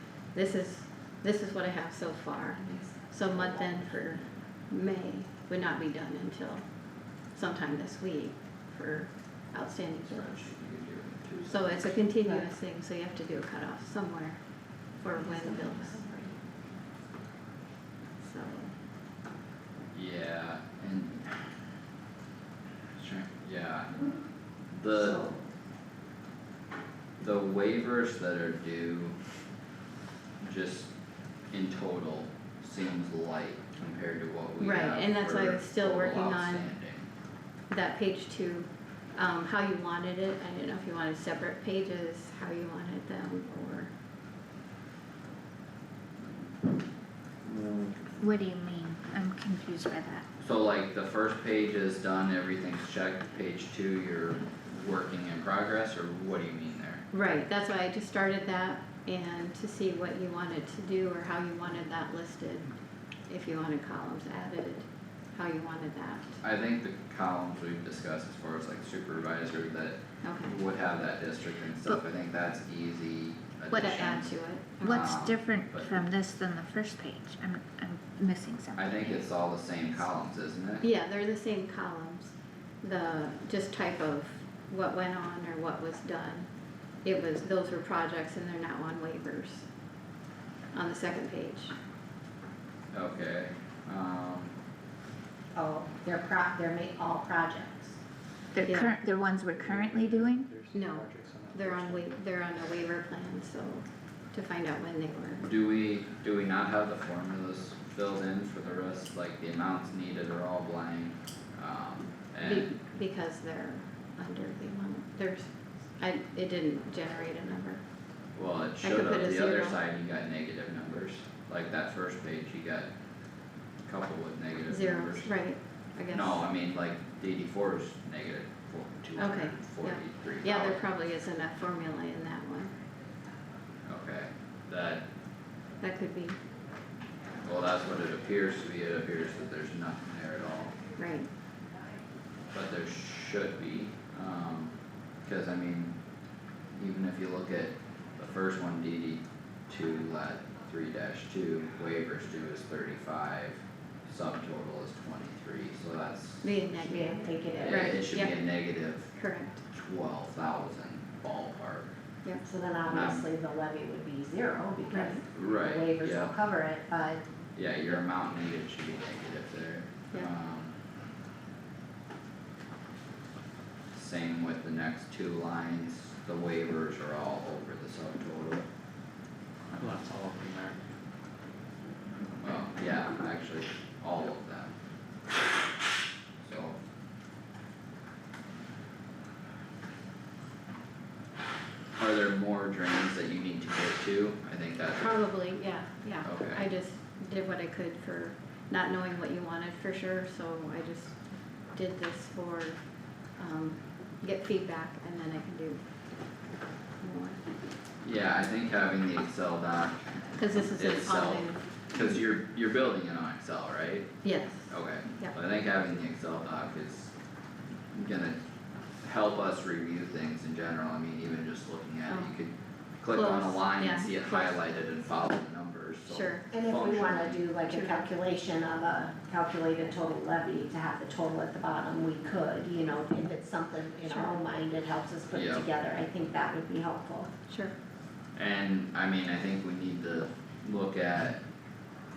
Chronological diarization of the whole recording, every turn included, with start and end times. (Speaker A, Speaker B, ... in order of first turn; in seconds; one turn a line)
Speaker A: 0.3-6.7
Speaker B: 2.7-3.6
Speaker A: 7.2-10.4
Speaker C: 10.1-12.1
Speaker A: 11.5-14.4
Speaker A: 14.9-16.1
Speaker B: 15.2-16.4
Speaker A: 18.2-18.7
Speaker C: 19.9-21.5
Speaker C: 22.9-24.1
Speaker C: 24.7-25.3
Speaker B: 24.9-25.4
Speaker C: 27.2-29.2
Speaker C: 30.4-30.9
Speaker C: 31.5-37.1
Speaker A: 34.6-36.7
Speaker A: 37.7-43.9
Speaker C: 47.4-48.0
Speaker D: 48.2-50.2
Speaker C: 50.4-57.0
Speaker A: 57.1-62.7
Speaker A: 63.3-66.4
Speaker C: 66.4-76.0
Speaker A: 70.2-70.6
Speaker A: 73.7-75.1
Speaker D: 74.8-79.3
Speaker C: 78.8-80.9
Speaker A: 80.8-86.5
Speaker A: 87.0-89.7
Speaker A: 90.7-91.8
Speaker C: 92.9-94.5
Speaker B: 95.5-98.0
Speaker D: 98.5-100.5
Speaker A: 98.6-99.0
Speaker E: 99.5-102.1
Speaker A: 100.7-105.5
Speaker C: 105.4-112.7
Speaker A: 112.4-117.8
Speaker C: 118.3-122.9
Speaker A: 118.8-119.8
Speaker C: 123.9-125.3
Speaker A: 124.7-126.4
Speaker C: 126.1-130.8
Speaker A: 129.2-132.7
Speaker C: 133.9-135.1
Speaker A: 135.8-136.4
Speaker C: 137.4-140.8
Speaker A: 141.0-141.3
Speaker C: 142.5-144.7
Speaker C: 145.3-145.9
Speaker C: 146.8-156.5
Speaker A: 156.4-158.4
Speaker B: 156.8-157.9
Speaker C: 157.6-159.1
Speaker A: 159.1-159.6
Speaker C: 159.7-161.9
Speaker B: 162.4-167.2
Speaker C: 162.8-163.3
Speaker A: 164.9-165.2
Speaker C: 165.2-166.3
Speaker C: 167.6-170.7
Speaker C: 173.9-178.7
Speaker E: 179.7-180.8
Speaker C: 182.4-184.7
Speaker C: 186.4-186.8
Speaker C: 192.0-195.2
Speaker A: 195.0-201.2
Speaker C: 196.2-196.6
Speaker A: 201.7-202.8
Speaker A: 203.3-205.8
Speaker A: 207.0-207.4
Speaker C: 208.0-210.0
Speaker A: 210.4-211.6
Speaker C: 210.7-217.1
Speaker A: 214.2-215.3
Speaker C: 217.9-218.4
Speaker C: 219.0-227.4
Speaker A: 222.1-222.3
Speaker A: 223.1-224.6
Speaker A: 226.1-226.5
Speaker B: 226.5-237.3
Speaker A: 227.7-228.1
Speaker A: 234.1-234.4
Speaker C: 235.3-235.7
Speaker A: 237.5-237.7
Speaker C: 238.4-241.4